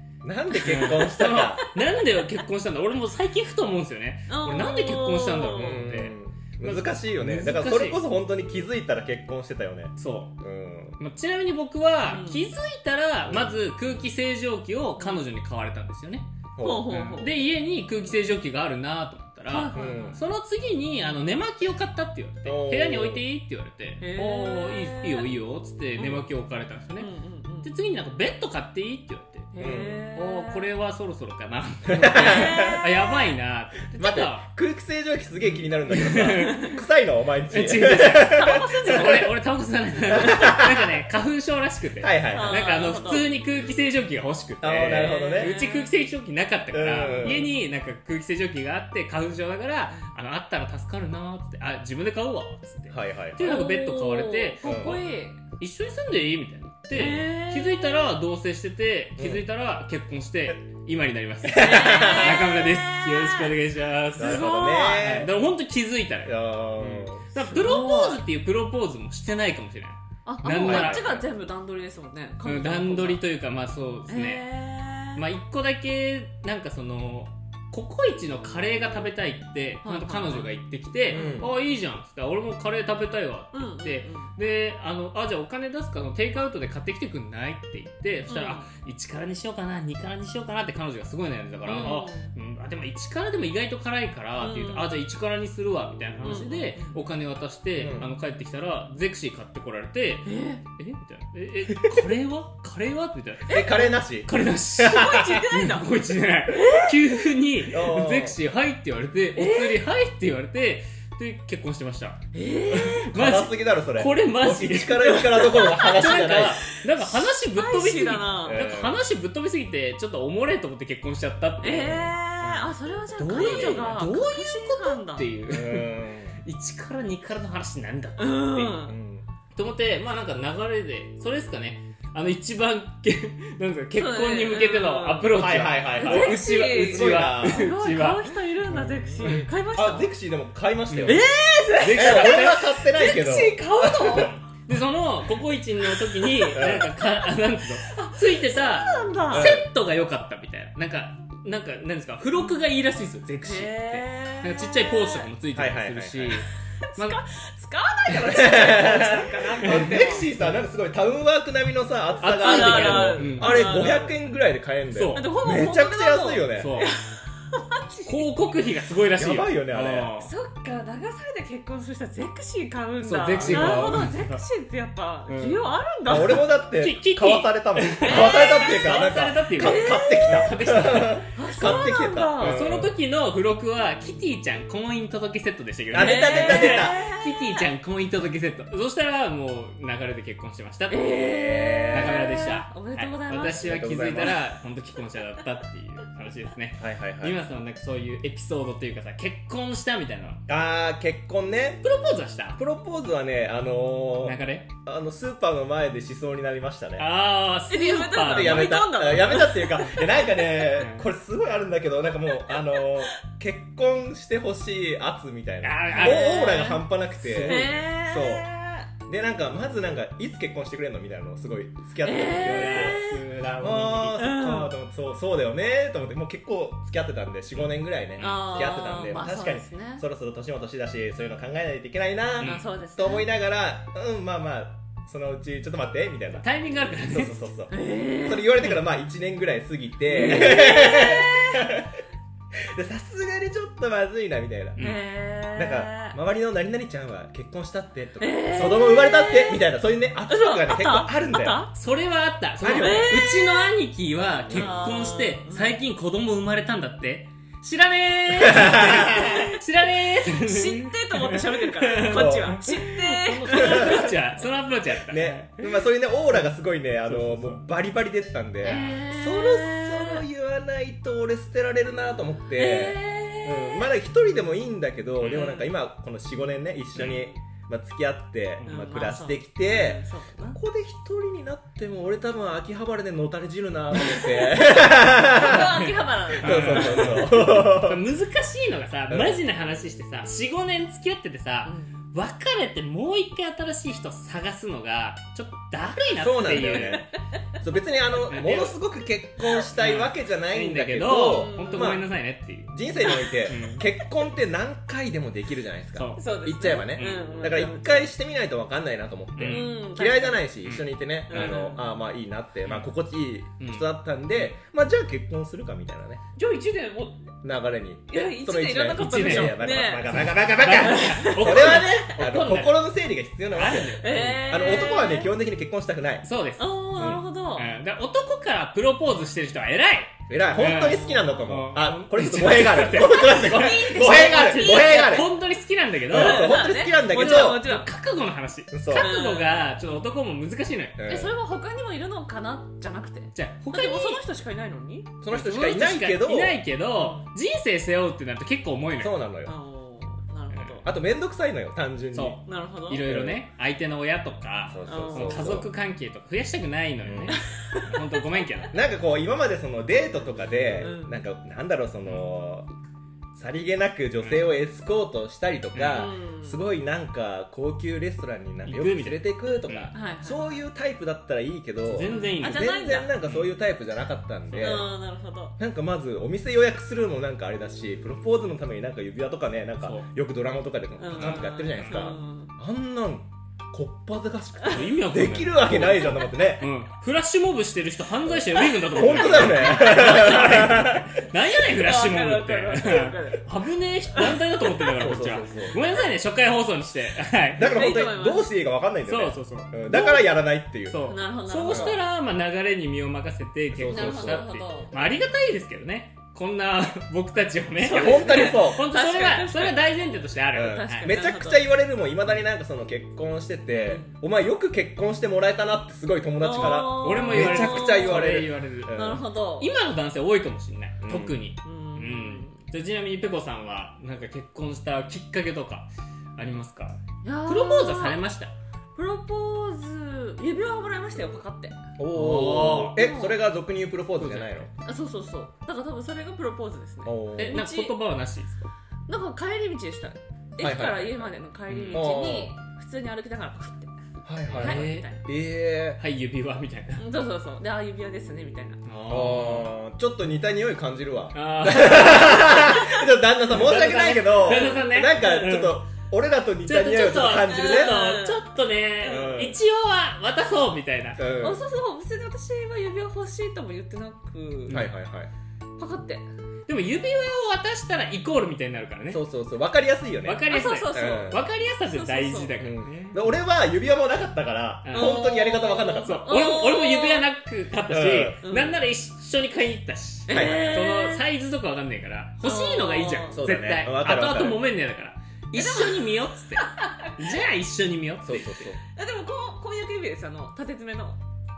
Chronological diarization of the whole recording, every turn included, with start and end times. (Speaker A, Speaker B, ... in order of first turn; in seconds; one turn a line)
Speaker A: 0.2-1.6
Speaker B: 0.5-8.0
Speaker C: 0.6-1.7
Speaker C: 4.3-5.9
Speaker A: 5.6-11.0
Speaker B: 10.0-10.3
Speaker B: 11.0-16.3
Speaker C: 12.0-12.5
Speaker C: 15.0-15.2
Speaker A: 16.6-16.9
Speaker C: 16.6-17.3
Speaker B: 16.9-27.1
Speaker C: 19.5-20.2
Speaker A: 19.7-20.2
Speaker A: 22.4-23.2
Speaker C: 24.0-25.3
Speaker C: 25.9-26.3
Speaker C: 27.0-27.7
Speaker B: 27.6-34.5
Speaker C: 29.5-30.7
Speaker A: 29.6-30.1
Speaker A: 31.9-32.9
Speaker C: 32.1-33.3
Speaker A: 34.0-39.3
Speaker B: 35.9-36.7
Speaker C: 36.4-36.8
Speaker B: 37.5-71.1
Speaker C: 38.2-39.3
Speaker C: 40.1-40.6
Speaker A: 40.1-40.8
Speaker A: 42.0-42.7
Speaker C: 42.3-43.3
Speaker A: 44.6-45.5
Speaker C: 44.9-45.9
Speaker A: 46.7-47.5
Speaker A: 52.9-53.6
Speaker C: 53.4-55.4
Speaker A: 54.6-55.0
Speaker C: 56.9-58.2
Speaker A: 56.9-57.3
Speaker A: 59.2-59.4
Speaker A: 61.5-62.5
Speaker C: 61.5-63.6
Speaker A: 64.2-65.3
Speaker C: 64.2-65.2
Speaker A: 66.2-67.2
Speaker C: 67.3-68.2
Speaker C: 70.2-73.2
Speaker A: 70.6-71.3
Speaker B: 72.4-74.4
Speaker C: 74.1-75.2
Speaker B: 75.2-103.6
Speaker C: 79.8-80.5
Speaker C: 81.1-81.5
Speaker A: 81.1-81.5
Speaker C: 83.5-84.3
Speaker C: 88.3-88.7
Speaker C: 91.7-92.3
Speaker C: 94.4-95.0
Speaker C: 96.2-97.0
Speaker A: 97.8-98.1
Speaker C: 100.2-100.6
Speaker C: 103.5-104.0
Speaker A: 103.5-105.4
Speaker B: 104.2-122.7
Speaker C: 104.8-105.9
Speaker C: 106.5-107.0
Speaker A: 107.7-108.4
Speaker C: 109.3-109.8
Speaker C: 112.3-113.1
Speaker A: 113.1-116.6
Speaker C: 115.2-118.7
Speaker A: 118.4-119.0
Speaker C: 121.6-125.3
Speaker B: 123.2-128.8
Speaker A: 123.3-123.9
Speaker A: 125.5-126.4
Speaker C: 128.2-128.9
Speaker A: 128.9-129.2
Speaker B: 129.5-139.5
Speaker C: 133.9-135.4
Speaker A: 135.3-137.7
Speaker C: 135.9-140.1
Speaker A: 139.2-141.2
Speaker B: 140.9-141.2
Speaker C: 141.0-144.4
Speaker B: 141.8-142.7
Speaker A: 141.8-144.3
Speaker B: 144.2-156.4
Speaker C: 145.9-146.6
Speaker A: 146.5-146.9
Speaker C: 147.8-149.6
Speaker A: 149.3-149.7
Speaker C: 153.4-155.3
Speaker A: 155.5-156.4
Speaker C: 156.9-160.3
Speaker A: 158.1-166.7
Speaker B: 162.2-163.6
Speaker C: 162.3-164.2
Speaker B: 164.9-165.3
Speaker C: 165.1-168.3
Speaker B: 166.6-167.0
Speaker B: 168.0-170.3
Speaker A: 169.2-170.1
Speaker C: 170.2-176.5
Speaker B: 173.0-174.4
Speaker A: 173.4-174.1
Speaker B: 175.3-175.6
Speaker A: 176.1-182.9
Speaker B: 176.8-181.3
Speaker C: 178.0-178.8
Speaker C: 179.6-180.5
Speaker C: 181.3-182.6
Speaker B: 182.4-191.2
Speaker A: 185.9-187.0
Speaker C: 185.9-187.7
Speaker C: 190.9-193.8
Speaker A: 191.1-192.3
Speaker B: 191.9-200.4
Speaker A: 193.6-194.4
Speaker A: 196.8-197.4
Speaker A: 200.5-201.8
Speaker B: 201.8-202.6
Speaker A: 202.6-207.0
Speaker B: 204.2-204.7
Speaker B: 207.0-208.8
Speaker C: 207.7-210.2
Speaker A: 208.2-218.5
Speaker B: 210.7-211.1
Speaker C: 212.5-213.1
Speaker B: 215.6-216.5
Speaker C: 215.9-218.9
Speaker B: 217.2-217.8
Speaker A: 219.1-241.9
Speaker C: 222.0-223.2
Speaker B: 222.3-224.2
Speaker C: 224.2-224.7
Speaker B: 228.2-228.7
Speaker C: 228.2-230.0
Speaker B: 232.4-232.7
Speaker C: 232.4-233.3
Speaker B: 236.4-237.5
Speaker C: 237.7-238.7
Speaker C: 240.1-241.7
Speaker A: 242.7-244.8
Speaker C: 244.8-246.2
Speaker A: 245.5-251.7
Speaker C: 248.2-249.7
Speaker C: 250.3-251.7
Speaker B: 251.7-265.7
Speaker A: 252.6-253.2
Speaker C: 252.7-253.7
Speaker C: 254.5-255.8
Speaker A: 258.6-259.3
Speaker C: 259.2-259.6
Speaker C: 260.2-264.2
Speaker A: 262.1-262.6
Speaker A: 263.4-264.2
Speaker A: 265.1-288.0
Speaker B: 267.0-267.6
Speaker C: 268.6-270.2
Speaker C: 272.5-273.9
Speaker B: 275.2-275.5
Speaker C: 275.3-275.7
Speaker B: 276.9-277.2
Speaker C: 278.6-280.6
Speaker C: 284.0-284.6
Speaker C: 285.3-287.2
Speaker B: 285.3-297.1
Speaker A: 289.1-289.4
Speaker C: 291.6-292.0
Speaker A: 296.2-297.1
Speaker C: 296.6-297.0
Speaker A: 297.6-302.1
Speaker B: 298.3-298.8
Speaker B: 299.8-302.7
Speaker C: 301.3-302.0
Speaker A: 302.7-316.2
Speaker C: 303.0-303.4
Speaker B: 303.5-303.8
Speaker B: 305.9-306.2
Speaker C: 306.1-308.1
Speaker B: 306.9-307.3
Speaker B: 309.4-309.7
Speaker C: 309.4-310.4
Speaker B: 310.6-311.6
Speaker C: 311.3-311.8
Speaker B: 313.6-314.5
Speaker C: 316.3-317.3
Speaker A: 317.4-326.2
Speaker C: 318.1-322.3
Speaker B: 319.0-322.8
Speaker B: 323.5-324.7
Speaker C: 324.0-325.3
Speaker B: 326.2-326.8
Speaker C: 326.6-327.7
Speaker A: 327.0-327.2
Speaker B: 327.6-341.0
Speaker A: 330.3-335.3
Speaker C: 332.9-335.3
Speaker A: 336.1-337.6
Speaker C: 336.1-337.9
Speaker A: 338.7-339.1
Speaker C: 338.9-339.7
Speaker A: 341.0-341.3
Speaker C: 341.1-345.1
Speaker B: 343.3-344.2
Speaker A: 345.2-346.6
Speaker B: 345.3-349.2
Speaker C: 346.9-347.2
Speaker A: 349.0-349.5
Speaker C: 349.4-350.9
Speaker B: 350.5-350.8
Speaker A: 350.8-352.4
Speaker B: 352.1-358.8
Speaker C: 352.4-353.1
Speaker A: 353.1-353.4
Speaker A: 354.7-355.7
Speaker C: 354.9-355.6
Speaker A: 357.0-357.4
Speaker C: 357.4-358.0
Speaker A: 358.7-362.7
Speaker C: 360.8-361.2
Speaker B: 362.0-362.3
Speaker A: 363.3-374.9
Speaker B: 364.2-364.5
Speaker B: 365.7-366.1
Speaker C: 365.9-366.6
Speaker B: 368.6-369.9
Speaker C: 369.9-370.6
Speaker B: 371.8-372.7
Speaker C: 372.0-373.1
Speaker B: 373.2-373.6
Speaker C: 374.5-375.5
Speaker A: 375.6-386.6
Speaker B: 379.8-380.1
Speaker C: 381.0-382.5
Speaker B: 381.1-382.1
Speaker B: 384.7-397.8
Speaker A: 388.2-391.0
Speaker C: 388.8-390.4
Speaker C: 391.5-393.5
Speaker C: 394.1-395.8
Speaker A: 395.0-395.8
Speaker A: 397.6-401.0
Speaker C: 397.6-398.5
Speaker B: 399.1-399.8
Speaker C: 399.9-400.3
Speaker B: 400.9-411.1
Speaker C: 401.0-402.0
Speaker A: 401.6-402.0
Speaker A: 403.7-404.5
Speaker C: 403.9-405.0
Speaker C: 407.8-411.7
Speaker A: 407.9-408.9
Speaker A: 410.5-419.2
Speaker C: 413.8-414.2
Speaker C: 416.4-418.3
Speaker B: 416.9-419.0
Speaker C: 418.9-419.7
Speaker B: 419.6-428.5
Speaker A: 421.0-421.4
Speaker C: 421.6-422.6
Speaker C: 427.2-428.2
Speaker C: 428.9-431.8
Speaker A: 432.0-434.7
Speaker B: 432.1-433.0
Speaker C: 432.9-433.4
Speaker B: 434.2-434.7
Speaker C: 434.8-437.9
Speaker A: 437.0-437.6
Speaker B: 437.4-438.6
Speaker C: 439.1-443.9
Speaker A: 440.6-441.3
Speaker B: 441.7-442.1
Speaker A: 441.9-442.5
Speaker A: 444.2-446.0
Speaker B: 444.5-445.1
Speaker C: 444.5-445.3
Speaker B: 446.0-447.1
Speaker C: 447.0-448.8
Speaker B: 448.8-449.7
Speaker A: 449.1-458.0
Speaker B: 451.3-452.7
Speaker C: 452.7-453.0
Speaker B: 453.5-455.8
Speaker C: 454.4-454.9
Speaker B: 456.6-461.2
Speaker C: 457.4-458.4
Speaker C: 459.0-459.4
Speaker A: 459.0-459.6
Speaker A: 461.2-461.6
Speaker C: 461.4-464.9
Speaker A: 464.7-465.3
Speaker C: 465.8-466.3
Speaker B: 466.7-469.3
Speaker A: 469.1-470.4
Speaker B: 470.2-473.2
Speaker C: 470.5-472.6
Speaker A: 470.9-471.4
Speaker A: 472.6-476.2
Speaker B: 474.8-475.2
Speaker C: 474.9-477.3
Speaker B: 476.0-488.6
Speaker A: 477.9-478.4
Speaker C: 478.4-478.8
Speaker C: 480.3-481.3
Speaker A: 480.3-480.8
Speaker C: 482.4-483.4
Speaker A: 483.3-484.6
Speaker C: 485.5-487.4
Speaker A: 488.2-488.8
Speaker C: 488.8-491.2